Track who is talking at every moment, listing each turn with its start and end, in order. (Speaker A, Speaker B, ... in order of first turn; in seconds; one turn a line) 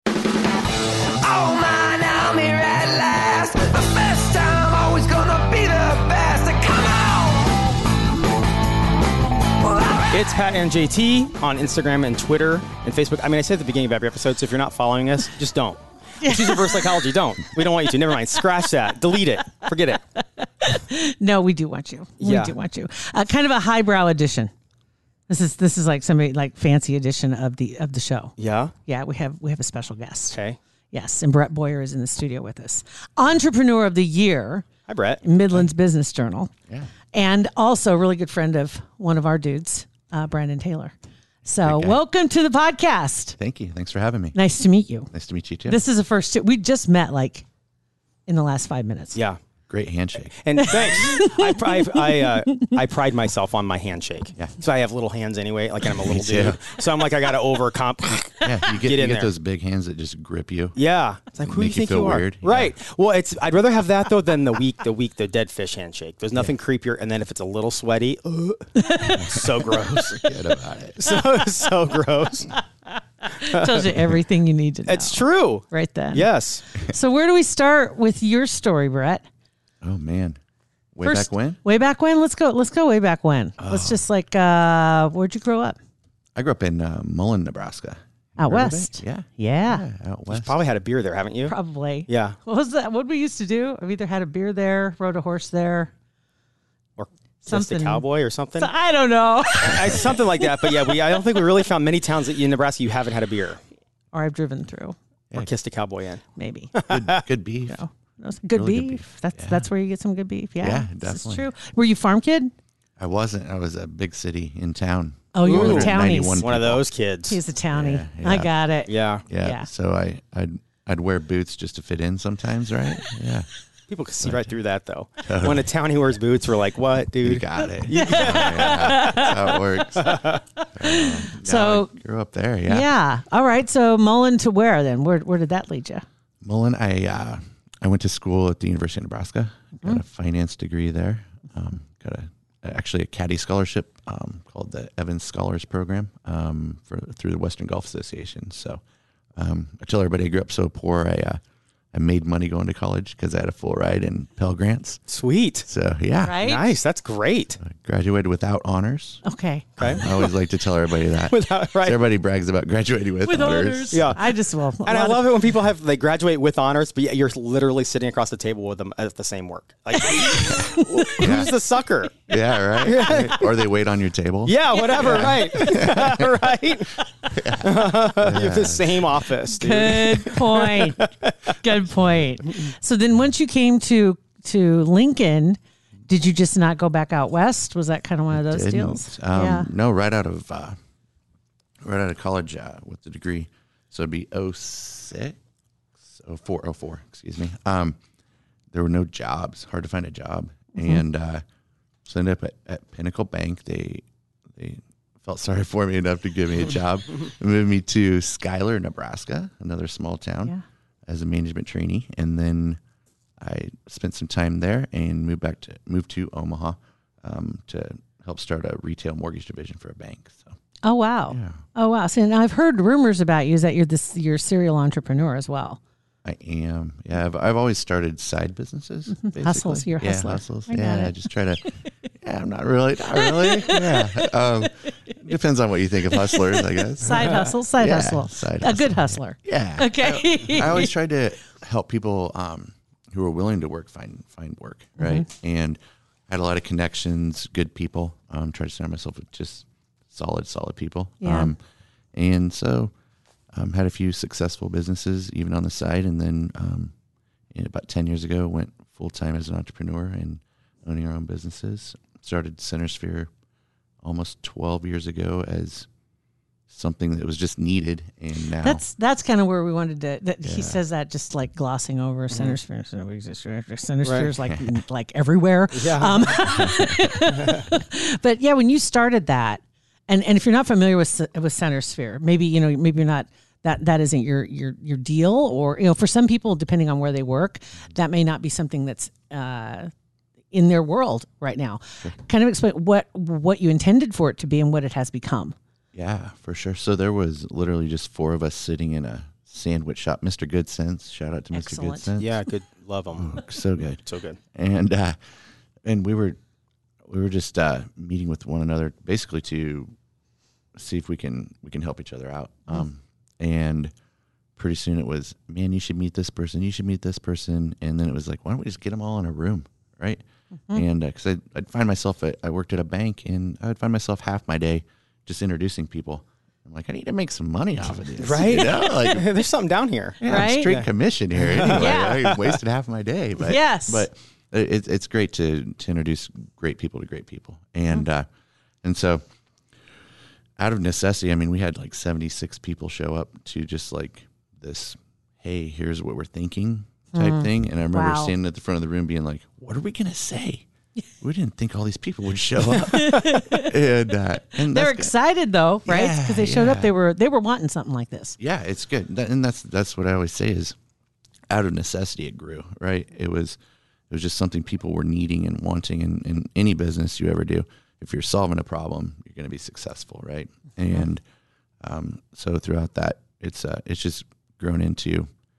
Speaker A: 1.2-7.7
Speaker A: 9.6-10.0
Speaker B: 10.1-20.0
Speaker C: 16.2-17.0
Speaker C: 19.6-24.5
Speaker B: 22.2-22.5
Speaker C: 25.3-28.3
Speaker B: 28.4-28.7
Speaker C: 28.9-30.4
Speaker B: 30.3-30.6
Speaker C: 30.9-34.7
Speaker B: 34.9-35.2
Speaker C: 35.2-36.5
Speaker C: 37.1-40.9
Speaker C: 41.5-43.4
Speaker D: 41.6-42.0
Speaker D: 43.4-44.4
Speaker C: 44.4-45.1
Speaker D: 45.1-45.8
Speaker C: 45.7-47.5
Speaker C: 48.3-49.2
Speaker D: 49.7-50.8
Speaker B: 50.4-59.3
Speaker C: 50.6-52.8
Speaker D: 56.0-56.7
Speaker D: 58.4-60.8
Speaker B: 60.8-70.2
Speaker D: 61.4-62.7
Speaker C: 68.8-70.0
Speaker D: 70.0-71.0
Speaker B: 71.0-72.5
Speaker C: 73.2-79.3
Speaker B: 73.5-73.9
Speaker B: 74.9-76.6
Speaker D: 79.8-80.4
Speaker D: 81.0-81.6
Speaker C: 81.0-85.8
Speaker D: 83.6-84.0
Speaker D: 86.3-90.5
Speaker C: 88.4-89.8
Speaker B: 90.3-91.5
Speaker C: 91.5-95.9
Speaker B: 92.1-92.4
Speaker B: 97.0-98.7
Speaker C: 97.5-98.0
Speaker C: 98.6-100.9
Speaker B: 99.6-103.6
Speaker C: 104.1-105.0
Speaker B: 105.3-106.2
Speaker C: 106.4-106.7
Speaker B: 106.8-107.2
Speaker D: 106.9-107.8
Speaker C: 107.7-112.5
Speaker D: 108.5-109.7
Speaker D: 110.6-111.5
Speaker D: 113.0-116.8
Speaker C: 115.3-116.5
Speaker B: 115.4-117.4
Speaker C: 117.3-119.7
Speaker D: 117.7-118.5
Speaker B: 118.9-119.2
Speaker D: 119.3-123.5
Speaker B: 123.9-129.5
Speaker D: 124.2-124.5
Speaker D: 125.2-125.7
Speaker D: 127.2-130.2
Speaker C: 127.9-130.2
Speaker B: 130.0-130.4
Speaker D: 130.8-132.9
Speaker C: 130.8-131.9
Speaker C: 132.7-136.1
Speaker D: 136.4-148.8
Speaker D: 149.4-151.4
Speaker D: 151.9-155.0
Speaker B: 155.1-155.7
Speaker D: 155.7-156.4
Speaker C: 156.2-156.6
Speaker B: 156.4-157.6
Speaker D: 157.6-159.2
Speaker C: 159.2-160.0
Speaker B: 159.8-160.3
Speaker D: 159.8-164.2
Speaker B: 161.2-162.0
Speaker C: 163.2-165.3
Speaker B: 163.9-164.2
Speaker B: 164.8-172.2
Speaker C: 170.2-171.3
Speaker D: 171.2-171.5
Speaker D: 172.3-176.3
Speaker B: 172.8-173.5
Speaker B: 174.4-177.0
Speaker C: 174.9-175.8
Speaker D: 177.3-179.2
Speaker B: 177.6-181.6
Speaker C: 179.5-181.0
Speaker C: 181.6-189.7
Speaker D: 188.3-190.8
Speaker D: 191.8-195.4
Speaker D: 196.0-198.0
Speaker D: 198.7-201.4
Speaker C: 200.8-201.0
Speaker D: 202.1-204.0
Speaker D: 204.6-210.5
Speaker D: 211.1-212.8
Speaker D: 213.4-220.5
Speaker C: 220.8-225.8
Speaker D: 221.3-221.6
Speaker D: 226.2-231.7
Speaker C: 229.1-231.8
Speaker D: 232.2-251.6
Speaker C: 233.2-234.3
Speaker C: 236.1-240.9
Speaker B: 237.1-237.5
Speaker C: 245.0-245.3
Speaker C: 251.2-251.5
Speaker D: 252.1-252.9
Speaker D: 253.5-256.9
Speaker D: 257.5-263.3
Speaker D: 264.0-265.9
Speaker D: 266.7-268.8
Speaker C: 268.6-289.9
Speaker D: 270.4-270.8
Speaker B: 272.3-272.6
Speaker B: 274.0-274.3
Speaker B: 275.7-276.4
Speaker D: 276.6-277.0
Speaker B: 277.3-277.6
Speaker C: 290.5-295.6
Speaker D: 295.9-302.4
Speaker C: 301.5-302.1
Speaker B: 302.2-303.4
Speaker D: 303.2-304.0
Speaker B: 304.1-304.4
Speaker D: 304.5-305.2
Speaker D: 305.8-306.4
Speaker D: 307.0-309.9
Speaker D: 310.8-313.9
Speaker D: 314.6-329.3
Speaker B: 328.2-332.6
Speaker D: 330.2-338.3
Speaker C: 330.2-330.7
Speaker C: 331.7-332.4
Speaker C: 333.4-334.1
Speaker D: 338.8-339.2
Speaker D: 340.6-350.7
Speaker C: 347.1-348.3
Speaker D: 351.2-355.1
Speaker C: 352.9-353.8
Speaker C: 354.6-358.4
Speaker D: 355.9-356.9
Speaker D: 358.4-360.8
Speaker D: 361.5-363.6
Speaker D: 364.1-371.2
Speaker D: 371.8-375.3